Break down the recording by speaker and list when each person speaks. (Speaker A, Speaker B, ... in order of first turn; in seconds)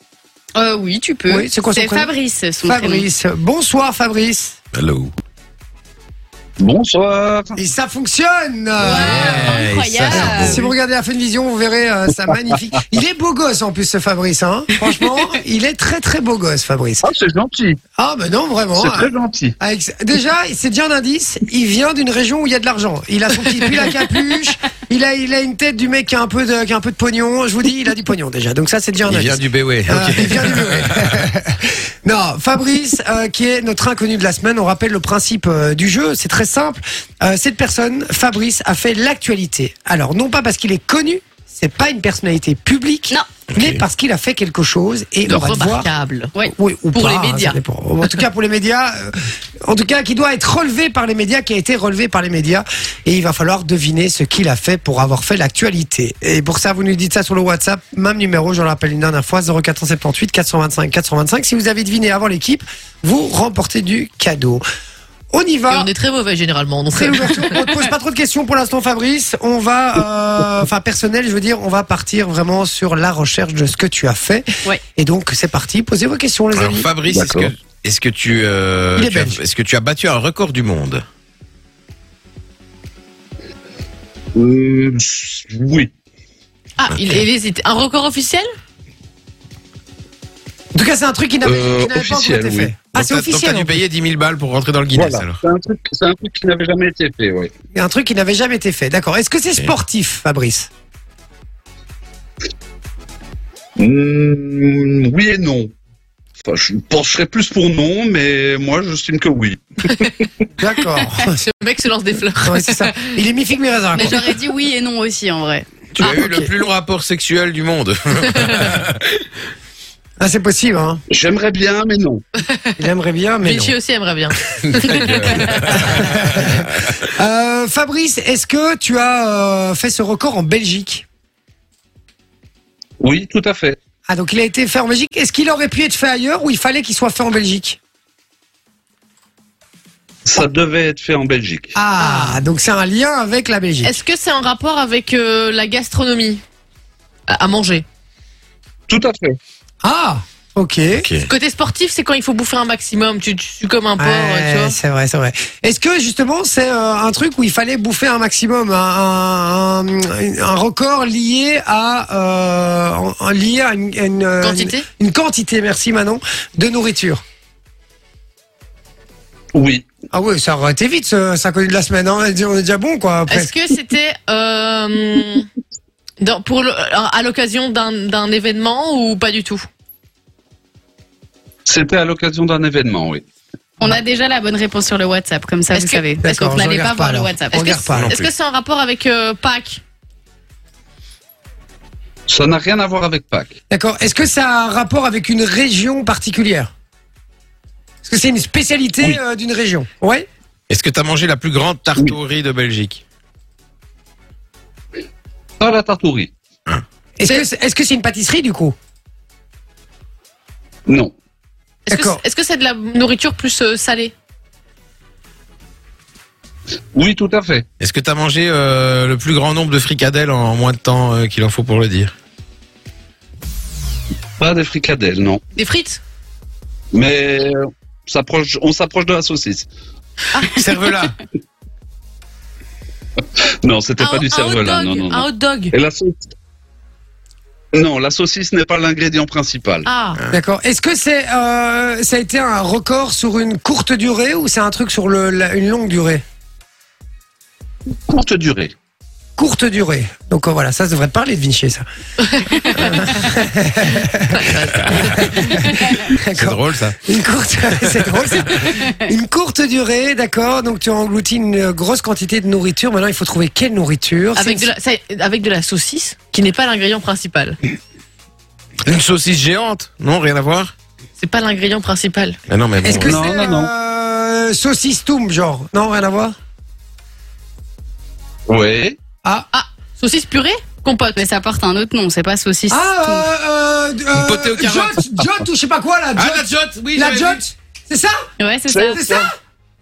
Speaker A: 0.6-3.1, 8.8-10.7, 14.9-15.4, 67.7-67.9, 114.0-115.7, 183.8-188.0, 281.1-283.3, 288.4-289.0
Speaker B: 1.3-2.1, 2.6-4.6, 7.6-9.5, 10.1-17.0, 18.0-45.9, 46.5-64.6, 65.3-65.9, 66.9-74.4, 75.0-76.9, 79.0-79.4, 90.7-93.8, 97.7-100.7, 110.6-111.4, 112.4-114.2, 116.0-116.5, 120.2-121.0, 122.8-123.8, 125.6-131.1, 134.1-137.8, 141.8-143.9, 149.8-151.1, 154.0-167.2, 170.1-173.5, 186.2-188.1, 193.7-196.7, 198.0-200.3, 207.2-208.8, 211.9-212.2, 240.3-246.2, 249.4-251.8, 252.6-264.7, 272.8-276.4, 279.2-279.5, 282.7-288.2, 288.9-289.3
Speaker C: 4.7-5.1, 8.8-10.7, 29.1-31.2, 43.5-43.8, 76.5-81.0, 92.9-95.4, 116.0-119.1, 124.9-126.8, 150.9-151.3, 187.9-188.3, 200.7-203.0, 217.8-222.1, 230.6-231.1, 255.0-255.5, 256.4-257.1, 257.8-258.5, 268.9-270.7, 272.5-273.2, 284.1-285.1, 286.2-287.4
Speaker D: 6.6-7.6, 17.0-17.8, 18.7-19.6, 77.1-77.5, 84.3-85.9, 91.4-92.7, 94.9-97.5, 103.8-105.7, 106.5-110.1, 121.1-122.2, 133.0-133.8, 140.3-141.8, 148.9-149.4, 169.5-169.8, 181.7-183.2, 192.3-193.6, 205.6-206.3, 210.9-211.1, 216.9-217.7, 224.4-225.4, 226.9-229.7, 233.4-236.3, 237.7-239.9, 248.1-248.7, 273.0-273.7, 278.5-279.0, 288.7-289.3
Speaker E: 45.3-46.4, 46.9-48.2, 65.7-67.5, 86.8-88.5, 111.4-112.9, 118.3-118.7, 122.4-122.9, 123.4-125.8, 142.0-142.4, 143.8-146.4, 147.3-147.8, 151.3-154.8, 164.4-164.8, 173.3-175.5, 176.2-179.7, 185.7-186.5, 187.5-189.8, 211.9-214.1, 225.6-226.0, 230.3-230.6, 234.0-235.7, 239.8-240.2, 252.2-253.3, 254.3-255.5, 264.3-267.6, 271.2-272.4, 279.5-281.2